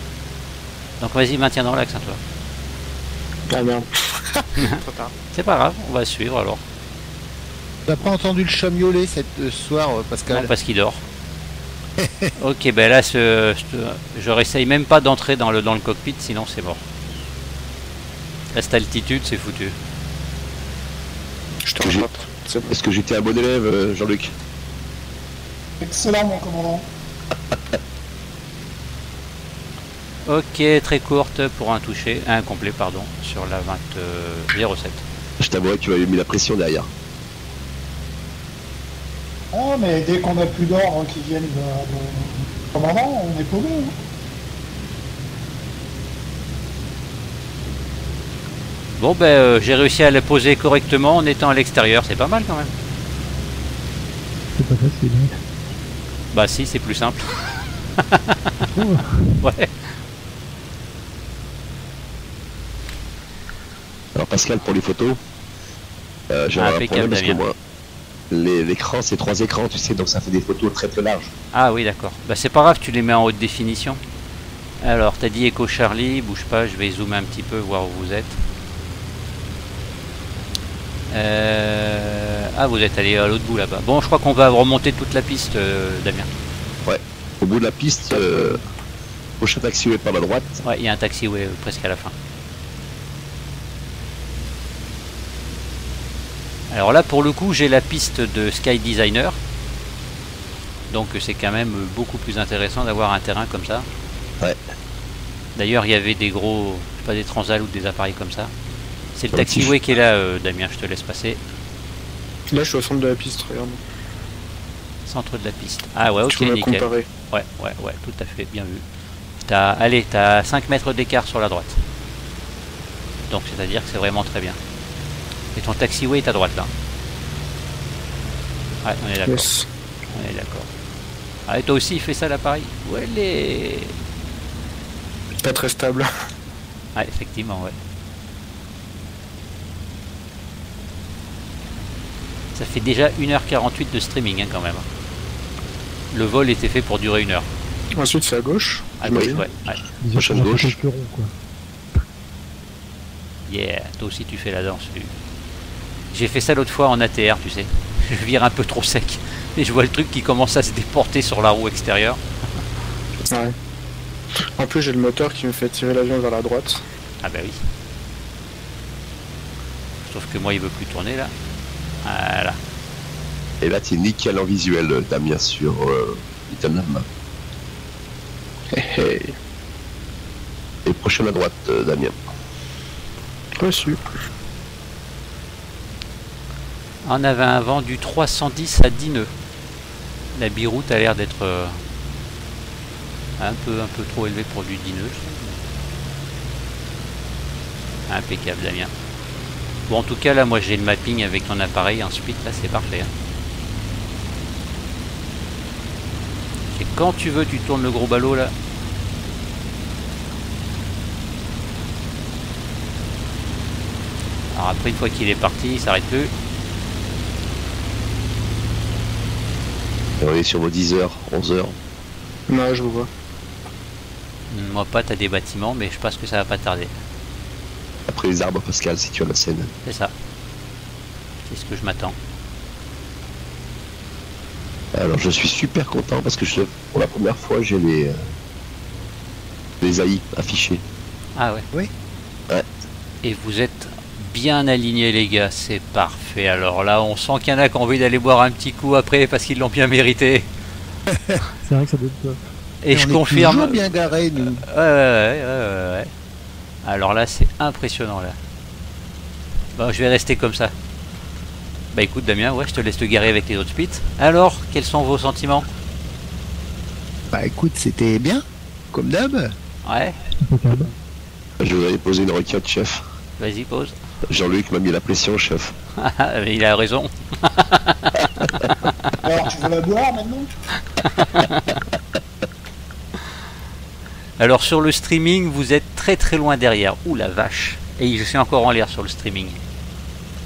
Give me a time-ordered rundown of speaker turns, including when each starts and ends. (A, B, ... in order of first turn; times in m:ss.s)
0:01.0-0:02.2 A
0:03.5-0:05.1 B
0:05.3-0:06.6 A
0:07.8-0:10.5 C
0:10.3-0:11.0 A
0:12.0-0:12.3 C
0:12.4-0:16.8 A
0:18.5-0:19.8 A
0:21.6-0:22.7 B
0:21.8-0:22.0 D
0:22.7-0:24.3 D
0:25.8-0:26.9 E
0:30.2-0:35.0 A
0:35.4-0:36.9 D
0:39.5-0:44.0 E
0:49.0-0:52.7 A
0:54.6-0:55.4 F
0:56.3-0:58.3 A
0:58.6-0:59.4 F
0:59.4-0:59.7 A
1:04.2-1:05.2 D
1:06.3-1:07.5 D
1:06.5-1:07.4 A
1:08.3-1:11.3 D
1:11.5-1:14.0 A
1:14.8-1:18.4 A
1:21.1-1:26.3 A
1:26.8-1:28.6 D
1:29.4-1:30.6 D
1:30.6-1:32.1 A
1:36.7-1:39.4 A
1:40.9-1:43.9 A
1:45.6-1:48.5 A
1:49.2-1:51.4 A
1:49.3-1:49.7 D
1:52.5-1:53.8 B
1:55.0-1:58.8 A
1:56.3-1:57.1 B
1:59.4-2:01.8 A
2:03.3-2:04.6 A
2:05.5-2:06.7 A
2:08.8-2:09.5 A
2:09.2-2:09.7 B
2:10.1-2:10.7 A
2:11.5-2:13.9 A
2:15.4-2:16.1 B
2:16.9-2:17.8 A
2:22.5-2:24.8 A
2:26.1-2:27.5 A
2:28.0-2:29.4 B
2:29.0-2:29.8 A
2:29.0-2:29.4 D
2:30.0-2:31.3 F
2:30.1-2:30.8 D
2:33.5-2:35.1 A
2:36.1-2:42.2 A
2:43.3-2:43.5 B
2:44.6-2:46.8 B
2:47.2-2:47.6 A
2:50.1-2:51.3 A
2:52.0-2:52.6 A
2:53.6-2:57.0 D
2:58.7-2:59.3 B
3:00.8-3:02.1 D
3:03.6-3:04.0 B
3:07.0-3:09.3 A
3:10.3-3:11.8 A
3:13.4-3:15.6 A
3:18.1-3:18.9 A
3:19.9-3:23.1 A
3:26.7-3:28.5 A
3:34.5-3:36.3 A
3:40.2-3:41.8 D
3:42.5-3:43.1 B
3:44.5-3:46.9 A
3:48.1-3:49.7 D
3:49.8-3:50.1 A
3:51.5-3:52.2 A
3:54.9-3:58.3 D
3:59.8-4:00.8 D
4:01.4-4:01.6 A
4:03.2-4:10.5 A
4:11.1-4:11.4 C
4:11.6-4:12.4 F
4:12.8-4:16.1 A
4:12.9-4:14.6 C
4:16.8-4:18.4 A
4:19.8-4:20.7 A
4:21.9-4:25.7 A
4:27.3-4:29.6 C
4:29.8-4:30.2 A
4:30.4-4:30.9 F
4:31.6-4:33.0 D
4:33.4-4:34.0 A
4:34.3-4:35.7 D
4:36.0-4:39.1 A
4:39.2-4:40.5 E
4:41.0-4:41.8 A
4:44.4-4:49.6 A